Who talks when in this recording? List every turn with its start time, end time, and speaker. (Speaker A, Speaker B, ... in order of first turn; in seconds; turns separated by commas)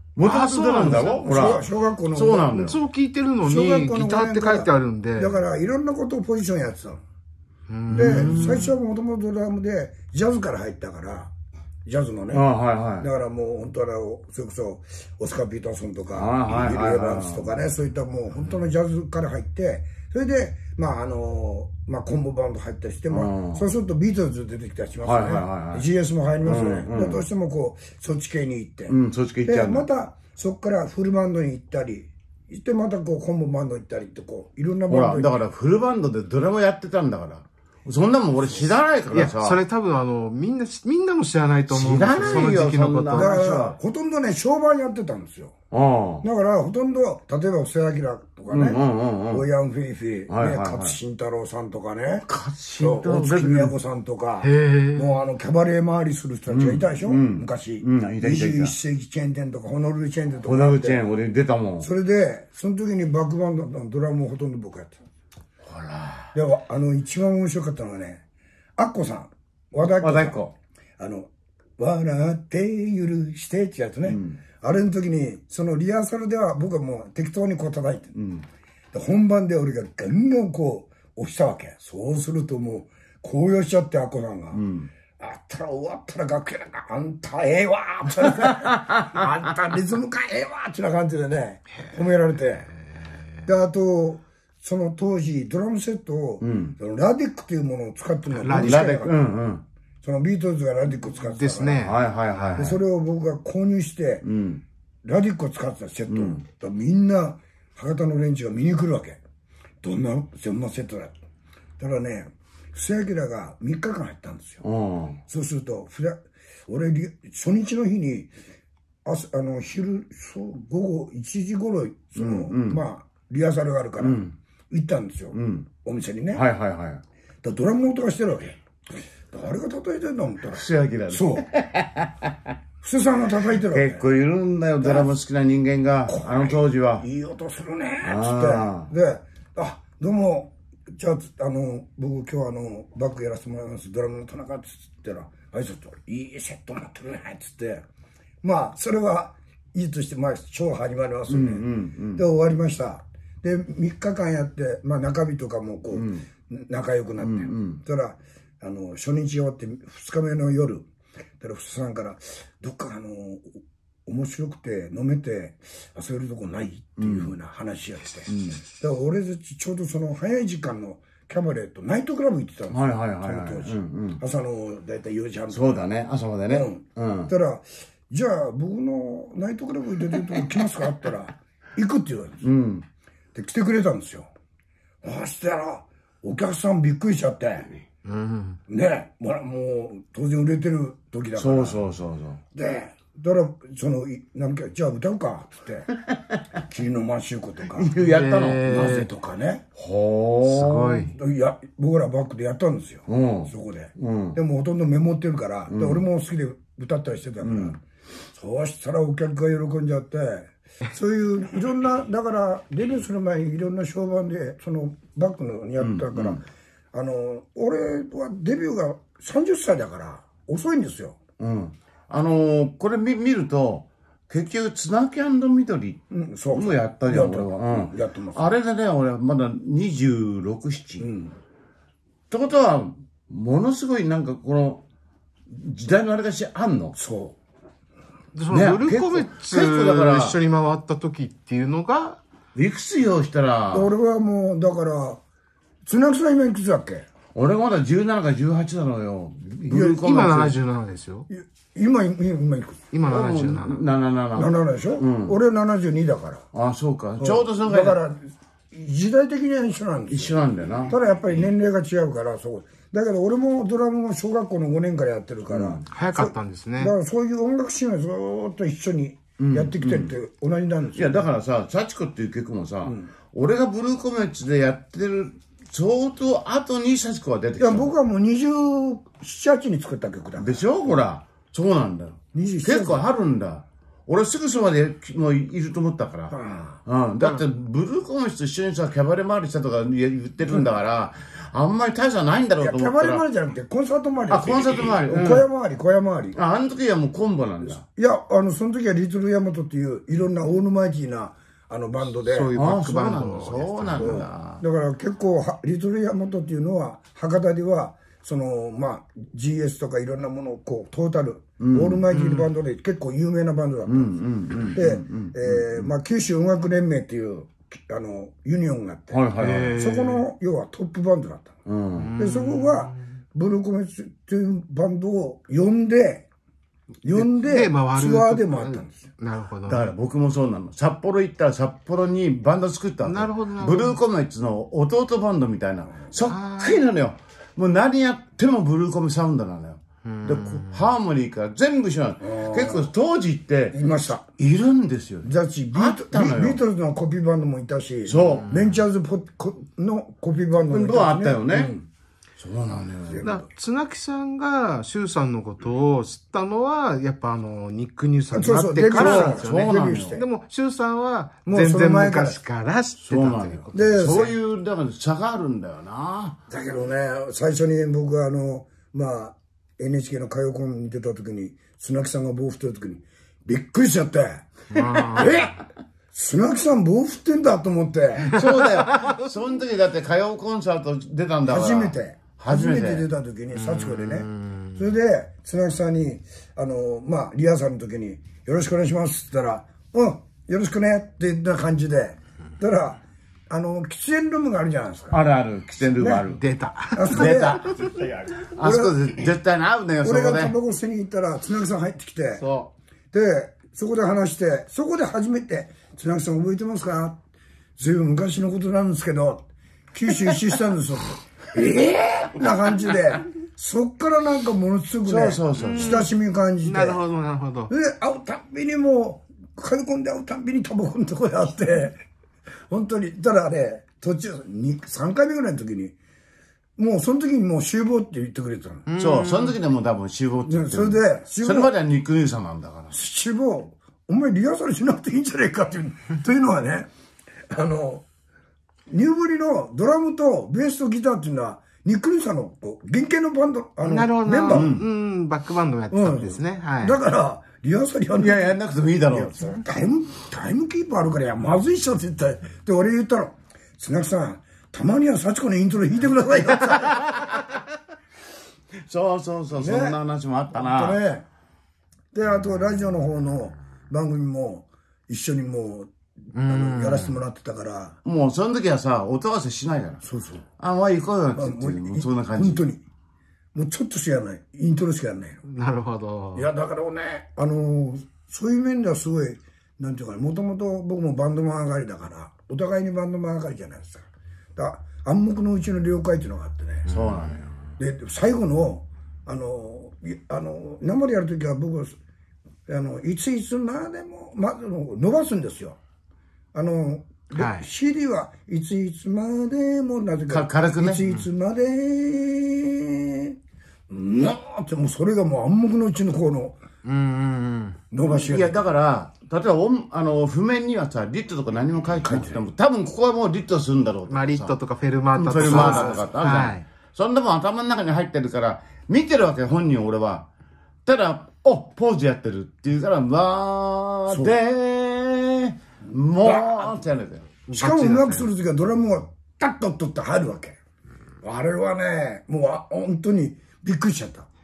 Speaker A: 0.2-2.8, Speaker B: 0.2-1.6, Speaker C: 0.8-2.5, Speaker B: 2.5-5.4, Speaker C: 3.5-7.0, Speaker B: 7.7-8.7, Speaker A: 7.9-8.7, Speaker C: 7.9-11.3, Speaker C: 11.8-12.5, Speaker A: 12.3-13.1, Speaker C: 13.0-35.4, Speaker A: 16.1-17.5, Speaker A: 23.1-23.7, Speaker A: 25.0-25.9, Speaker A: 26.4-27.2, Speaker A: 28.9-29.9, Speaker A: 34.9-39.6, Speaker C: 38.4-38.7, Speaker B: 39.1-43.4, Speaker A: 41.7-43.8, Speaker C: 42.2-45.6, Speaker A: 45.7-46.3, Speaker C: 46.2-52.3, Speaker A: 48.5-49.5, Speaker A: 50.3-51.0, Speaker A: 52.2-53.7, Speaker C: 52.8-61.0, Speaker B: 54.4-55.1, Speaker A: 56.5-58.7, Speaker A: 60.4-61.9, Speaker C: 61.8-65.0, Speaker A: 65.7-66.3, Speaker C: 66.3-68.2, Speaker C: 68.8-70.4, Speaker A: 69.8-70.5, Speaker C: 71.0-78.2, Speaker A: 74.1-74.4, Speaker A: 78.2-78.5, Speaker C: 78.9-84.6, Speaker A: 84.5-84.9, Speaker C: 85.2-92.7, Speaker A: 88.1-89.3, Speaker C: 93.5-99.2, Speaker A: 96.4-96.8, Speaker B: 98.3-98.9, Speaker A: 98.6-99.6, Speaker C: 100.0-102.0, Speaker B: 101.3-102.0, Speaker A: 101.8-102.8, Speaker C: 102.6-104.3, Speaker A: 104.2-104.6, Speaker C: 105.0-109.2, Speaker A: 106.1-106.4, Speaker C: 109.8-111.1, Speaker C: 111.8-114.6, Speaker A: 114.6-115.2, Speaker C: 115.3-118.3, Speaker C: 119.0-126.4, Speaker A: 122.2-122.8, Speaker A: 124.0-124.3, Speaker A: 125.3-125.7, Speaker A: 126.3-127.0, Speaker C: 127.4-131.5, Speaker A: 130.5-132.3, Speaker C: 132.8-134.0, Speaker A: 133.7-137.1, Speaker C: 134.8-135.1, Speaker C: 136.1-147.8, Speaker A: 138.0-138.9, Speaker C: 148.4-160.9, Speaker A: 151.3-152.2, Speaker A: 155.9-156.2, Speaker A: 157.2-157.8, Speaker C: 161.4-175.8, Speaker A: 167.0-167.3, Speaker A: 168.3-168.6, Speaker A: 172.7-174.2, Speaker A: 175.5-177.3, Speaker C: 176.5-182.5, Speaker A: 182.4-182.8, Speaker C: 183.3-184.3, Speaker C: 185.0-187.7, Speaker B: 188.1-188.6, Speaker C: 188.7-191.8, Speaker A: 191.4-192.4, Speaker C: 192.5-195.9, Speaker C: 196.6-197.9, Speaker A: 197.7-199.0, Speaker B: 198.0-199.1, Speaker C: 198.7-199.6, Speaker A: 199.8-201.1, Speaker B: 200.4-201.1, Speaker C: 201.1-207.8, Speaker A: 203.1-204.4, Speaker A: 205.7-206.0, Speaker A: 207.4-207.8, Speaker C: 208.3-221.2, Speaker A: 215.8-216.4, Speaker A: 221.4-231.1, Speaker C: 226.1-228.5, Speaker C: 231.0-231.3, Speaker A: 232.3-234.8, Speaker A: 235.5-237.0, Speaker C: 237.0-237.4, Speaker B: 238.3-242.2, Speaker A: 238.5-240.4, Speaker A: 242.6-243.9, Speaker C: 243.7-245.2, Speaker C: 245.8-247.1, Speaker A: 247.3-250.6, Speaker B: 249.6-251.3, Speaker C: 251.3-252.8, Speaker B: 252.9-253.8, Speaker A: 253.1-255.4, Speaker C: 254.3-256.4, Speaker A: 256.5-258.0, Speaker C: 257.2-260.4, Speaker A: 260.1-261.0, Speaker C: 260.9-271.3, Speaker A: 265.5-265.9, Speaker B: 265.9-266.9, Speaker A: 269.4-270.1, Speaker A: 271.0-277.9, Speaker C: 277.6-281.0, Speaker A: 280.4-293.2, Speaker C: 282.3-283.0, Speaker C: 286.3-286.8, Speaker C: 292.6-296.4, Speaker A: 294.3-295.5, Speaker A: 296.4-297.8, Speaker C: 297.6-302.5, Speaker B: 302.2-304.2, Speaker A: 302.6-304.6, Speaker C: 304.0-314.1, Speaker A: 311.6-312.0, Speaker B: 312.1-312.5, Speaker A: 313.9-315.9, Speaker C: 314.7-321.6, Speaker A: 319.1-319.8, Speaker B: 319.4-320.3, Speaker A: 321.7-322.1, Speaker B: 322.0-323.0, Speaker C: 322.2-326.3, Speaker C: 327.0-329.0, Speaker B: 327.1-329.9, Speaker A: 329.7-343.8, Speaker B: 333.1-334.0, Speaker B: 336.3-336.9, Speaker B: 340.1-340.9, Speaker C: 342.2-342.9, Speaker C: 343.7-344.3, Speaker A: 344.4-346.6, Speaker C: 345.2-351.8, Speaker A: 348.1-348.8, Speaker A: 350.7-351.7, Speaker A: 352.4-353.2, Speaker C: 353.1-353.5, Speaker B: 353.2-364.3, Speaker C: 358.3-360.2, Speaker A: 358.9-360.2, Speaker C: 361.5-362.4, Speaker A: 363.0-366.4, Speaker C: 363.7-364.4, Speaker C: 366.5-375.6, Speaker B: 374.7-375.4, Speaker A: 375.1-375.5, Speaker C: 376.1-378.4, Speaker A: 378.3-383.1, Speaker B: 378.3-379.3, Speaker C: 381.5-395.2, Speaker B: 383.5-384.8, Speaker A: 395.1-396.4, Speaker C: 396.0-396.3, Speaker B: 396.3-397.5, Speaker C: 396.9-397.6, Speaker A: 397.1-400.5, Speaker C: 398.6-399.1, Speaker C: 400.0-402.4, Speaker B: 402.4-402.7, Speaker C: 403.1-407.2, Speaker C: 407.8-417.0, Speaker A: 415.1-416.1, Speaker B: 415.6-416.1, Speaker B: 416.6-417.7, Speaker C: 417.7-422.0, Speaker C: 422.7-426.0, Speaker C: 426.8-428.9, Speaker B: 428.9-429.6, Speaker A: 429.0-432.9, Speaker C: 430.5-431.7, Speaker C: 432.9-436.9, Speaker C: 437.5-438.1, Speaker C: 438.9-444.8, Speaker B: 443.8-447.0, Speaker A: 444.5-444.8, Speaker C: 445.9-448.6, Speaker A: 448.2-449.4, Speaker C: 449.1-457.1, Speaker A: 458.9-461.0, Speaker C: 459.6-460.0, Speaker C: 460.5-461.3, Speaker C: 462.1-465.9, Speaker B: 466.3-467.2, Speaker C: 466.5-468.0, Speaker A: 468.1-470.0, Speaker C: 470.0-470.4, Speaker A: 470.6-472.6, Speaker C: 471.3-472.8, Speaker C: 473.6-475.4, Speaker B: 475.4-476.5, Speaker C: 476.4-486.9, Speaker A: 486.9-487.6, Speaker C: 487.8-492.0, Speaker C: 492.7-495.8, Speaker C: 496.5-503.4, Speaker B: 497.3-497.7, Speaker A: 500.3-501.1, Speaker C: 503.9-506.6, Speaker B: 506.8-507.8, Speaker C: 507.9-508.6, Speaker A: 508.1-514.5, Speaker C: 512.0-512.4, Speaker B: 514.1-516.6, Speaker A: 515.1-520.3, Speaker C: 515.4-516.0, Speaker A: 520.9-527.3, Speaker C: 524.1-524.4, Speaker C: 526.2-526.7, Speaker B: 527.5-528.3, Speaker C: 527.5-530.6, Speaker C: 531.2-534.3